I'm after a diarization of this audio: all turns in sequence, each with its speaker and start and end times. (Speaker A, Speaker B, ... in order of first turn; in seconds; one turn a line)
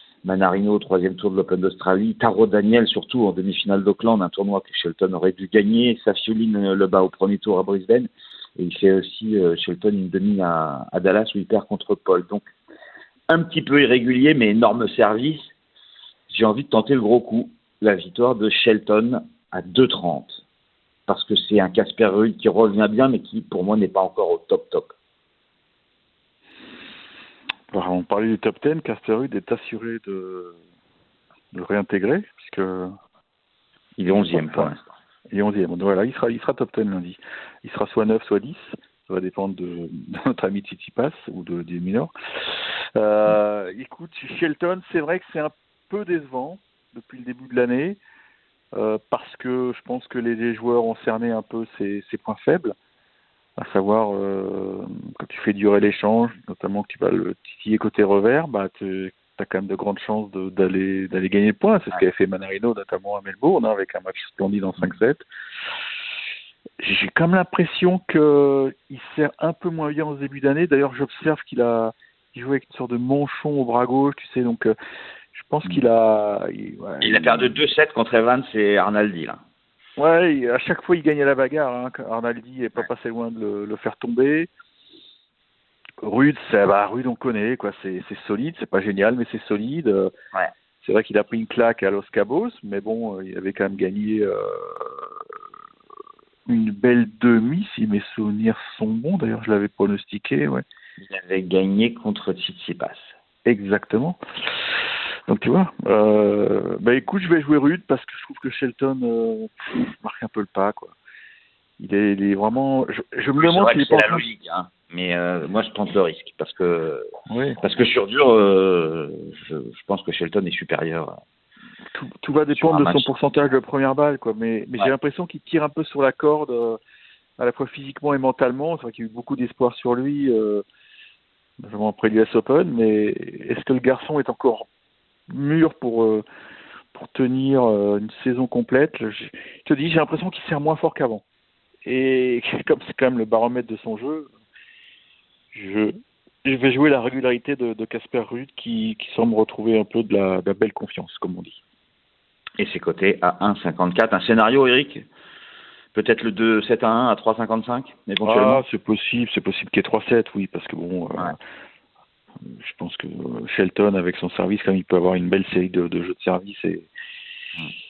Speaker A: 0.2-12.5
Speaker A: 13.3-15.5
Speaker A: 16.3-20.4
Speaker A: 21.1-24.9
Speaker B: 27.7-30.6
Speaker B: 31.5-32.9
Speaker A: 34.0-34.9
Speaker B: 34.3-34.7
Speaker B: 35.3-42.1
Speaker B: 42.9-48.0
Speaker B: 48.7-52.7
Speaker B: 53.6-65.2
Speaker B: 66.8-74.7
Speaker B: 75.3-77.5
Speaker A: 77.0-79.4
Speaker B: 80.0-84.5
Speaker B: 86.0-90.1
Speaker B: 90.8-95.1
Speaker B: 96.5-100.6
Speaker A: 101.0-103.1
Speaker B: 103.4-104.2
Speaker B: 105.3-110.9
Speaker B: 111.8-114.2
Speaker A: 113.4-117.1
Speaker B: 117.3-117.6
Speaker A: 117.6-121.1
Speaker B: 121.9-126.8
Speaker A: 122.5-123.1
Speaker B: 127.4-130.6
Speaker B: 131.6-134.7
Speaker B: 135.3-136.2
Speaker B: 136.9-141.2
Speaker B: 141.8-144.3
Speaker B: 145.5-151.6
Speaker A: 152.6-155.0
Speaker A: 155.9-158.6
Speaker B: 158.2-161.4
Speaker B: 162.4-166.9